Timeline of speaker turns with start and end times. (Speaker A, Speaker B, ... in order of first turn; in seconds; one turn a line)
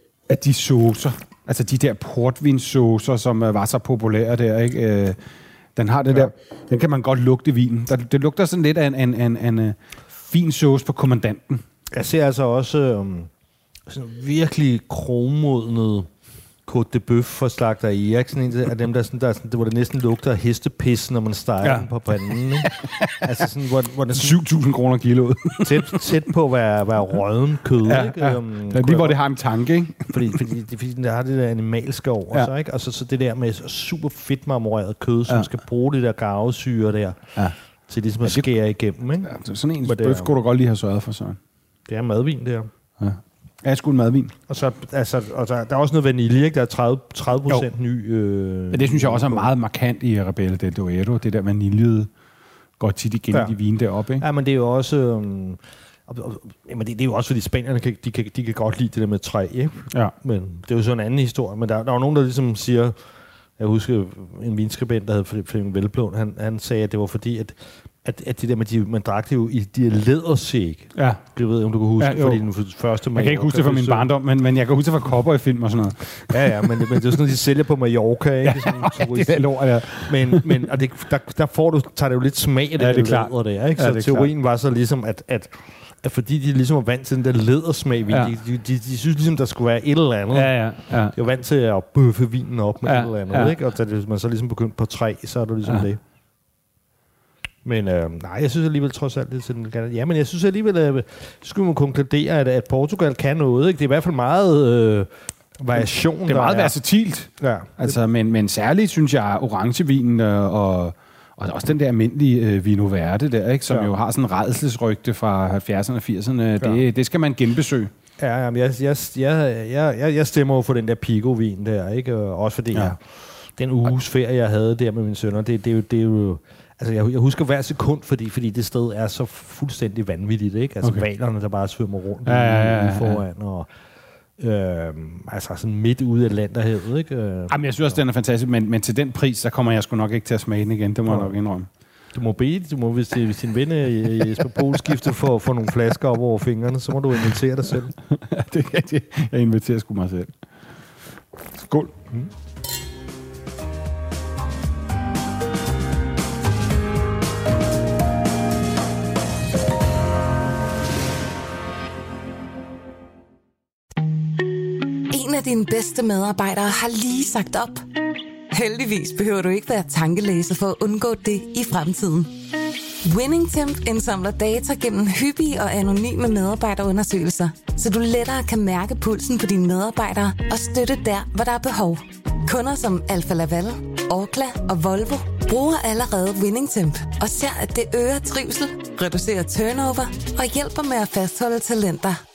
Speaker A: 0.3-5.2
Speaker A: 5.7-11.6
Speaker B: 11.9-13.3
Speaker B: 13.9-16.1
Speaker B: 16.6-24.4
Speaker A: 21.6-23.4
Speaker A: 24.1-26.1
Speaker B: 25.6-29.2
Speaker A: 27.8-30.4
Speaker B: 30.1-37.2
Speaker B: 37.9-39.3
Speaker A: 39.2-41.4
Speaker B: 39.8-40.3
Speaker B: 41.9-42.7
Speaker A: 43.0-44.3
Speaker B: 44.5-49.5
Speaker A: 48.7-52.1
Speaker A: 52.8-54.2
Speaker B: 54.2-63.0
Speaker B: 63.6-74.1
Speaker A: 70.9-71.2
Speaker A: 72.0-72.4
Speaker A: 73.1-77.2
Speaker B: 76.3-90.5
Speaker A: 78.4-80.7
Speaker A: 82.8-84.3
Speaker A: 88.1-88.3
Speaker A: 90.3-91.1
Speaker B: 91.1-96.0
Speaker A: 92.8-93.5
Speaker B: 97.6-106.8
Speaker A: 105.7-117.9
Speaker B: 107.4-108.0
Speaker B: 118.2-133.7
Speaker A: 132.2-133.2
Speaker B: 134.4-138.0
Speaker A: 137.5-141.7
Speaker B: 141.1-141.3
Speaker B: 142.1-147.9
Speaker A: 144.3-145.1
Speaker A: 148.1-150.3
Speaker A: 151.6-151.9
Speaker C: 165.1-167.8
Speaker C: 168.5-172.3
Speaker C: 173.0-192.2